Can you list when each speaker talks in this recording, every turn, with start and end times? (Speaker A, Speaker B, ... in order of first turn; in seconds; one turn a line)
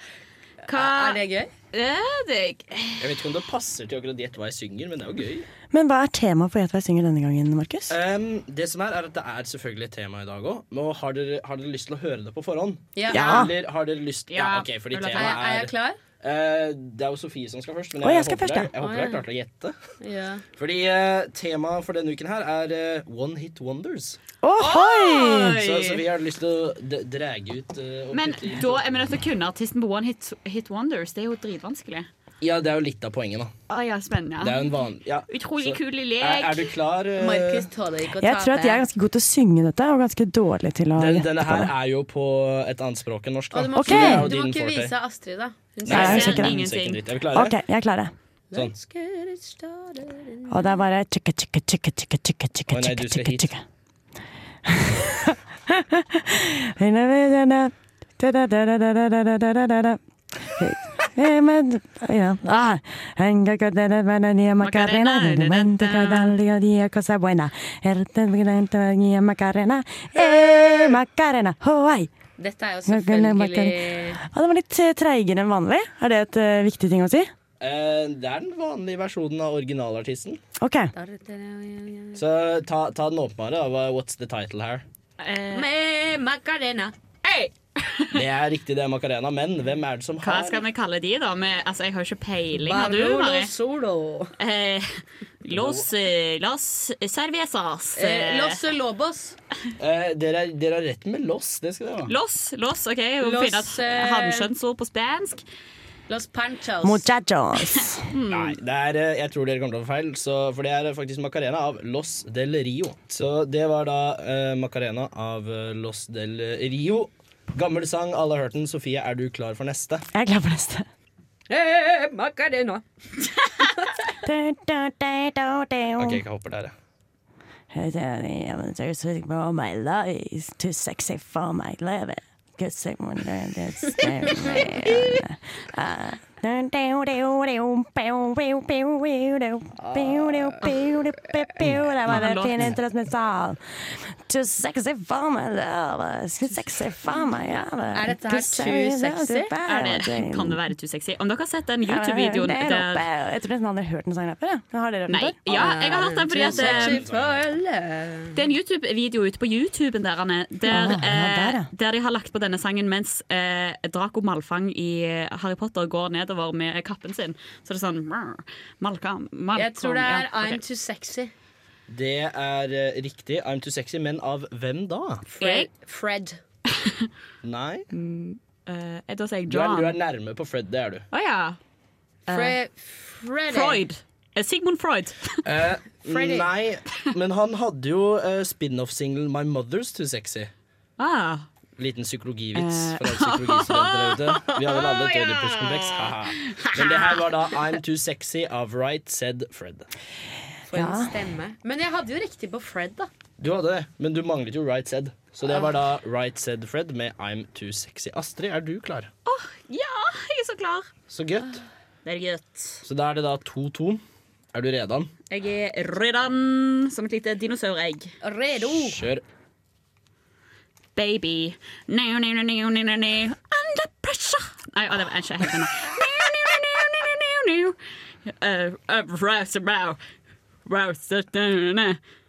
Speaker A: 0.7-1.2
Speaker B: 0.7-1.5
Speaker A: 1.7-3.1
Speaker C: 3.0-5.5
Speaker D: 5.7-7.9
Speaker C: 7.9-19.8
Speaker B: 13.0-13.5
Speaker D: 13.1-13.5
Speaker A: 14.3-15.4
Speaker B: 15.1-16.0
Speaker D: 18.0-18.7
Speaker B: 18.8-19.2
Speaker B: 20.0-20.4
Speaker C: 20.6-24.2
Speaker D: 24.4-25.6
Speaker A: 24.6-26.1
Speaker C: 25.6-29.0
Speaker A: 28.1-32.1
Speaker C: 32.4-33.5
Speaker A: 33.7-34.7
Speaker C: 34.4-37.7
Speaker A: 35.3-36.7
Speaker B: 37.2-38.8
Speaker D: 38.2-41.7
Speaker C: 41.0-44.9
Speaker B: 43.5-46.4
Speaker D: 43.8-44.3
Speaker C: 45.9-47.6
Speaker A: 45.9-47.0
Speaker D: 45.9-46.6
Speaker D: 47.3-48.1
Speaker B: 48.5-50.8
Speaker D: 50.5-53.6
Speaker C: 52.7-53.5
Speaker D: 54.7-72.1
Speaker A: 64.6-66.3
Speaker B: 70.2-71.0
Speaker B: 72.4-74.2
Speaker D: 72.9-77.3
Speaker C: 77.6-80.4
Speaker D: 80.6-80.9
Speaker B: 80.9-82.2
Speaker C: 82.2-84.8
Speaker A: 85.2-85.7
Speaker B: 85.5-86.9
Speaker A: 87.2-88.2
Speaker C: 88.2-90.6
Speaker A: 90.2-93.5
Speaker B: 92.5-94.3
Speaker A: 94.4-98.6
Speaker C: 95.5-95.9
Speaker B: 98.0-99.4
Speaker C: 99.8-102.1
Speaker A: 102.0-105.4
Speaker B: 103.2-104.5
Speaker B: 106.1-107.1
Speaker D: 106.8-108.0
Speaker A: 107.8-108.6
Speaker C: 108.3-120.0
Speaker D: 120.1-120.9
Speaker B: 121.5-123.8
Speaker D: 124.2-126.2
Speaker C: 126.0-126.7
Speaker D: 127.7-150.6
Speaker B: 139.8-140.7
Speaker A: 142.1-142.7
Speaker B: 147.9-149.5
Speaker A: 149.6-153.1
Speaker D: 151.8-155.5
Speaker A: 155.1-157.1
Speaker B: 155.5-158.4
Speaker C: 155.5-157.4
Speaker A: 158.3-170.6
Speaker D: 160.7-161.7
Speaker B: 169.6-171.3
Speaker C: 171.9-175.2
Speaker B: 175.4-176.4
Speaker A: 175.4-175.7
Speaker C: 177.4-177.9
Speaker A: 177.9-180.0
Speaker C: 179.5-181.1
Speaker A: 181.1-181.6
Speaker A: 182.3-182.6
Speaker B: 182.3-183.8
Speaker A: 183.5-185.3
Speaker C: 185.4-190.5
Speaker B: 186.1-186.5
Speaker A: 191.0-191.5
Speaker C: 191.8-199.9
Speaker A: 192.6-197.3
Speaker B: 200.7-203.1
Speaker D: 200.7-201.1
Speaker C: 203.4-209.1
Speaker A: 209.3-210.9
Speaker C: 211.1-211.6
Speaker A: 212.1-212.8
Speaker C: 212.8-215.1
Speaker A: 215.3-218.1
Speaker B: 218.2-219.0
Speaker C: 218.8-219.2
Speaker A: 221.0-230.0
Speaker A: 230.7-232.0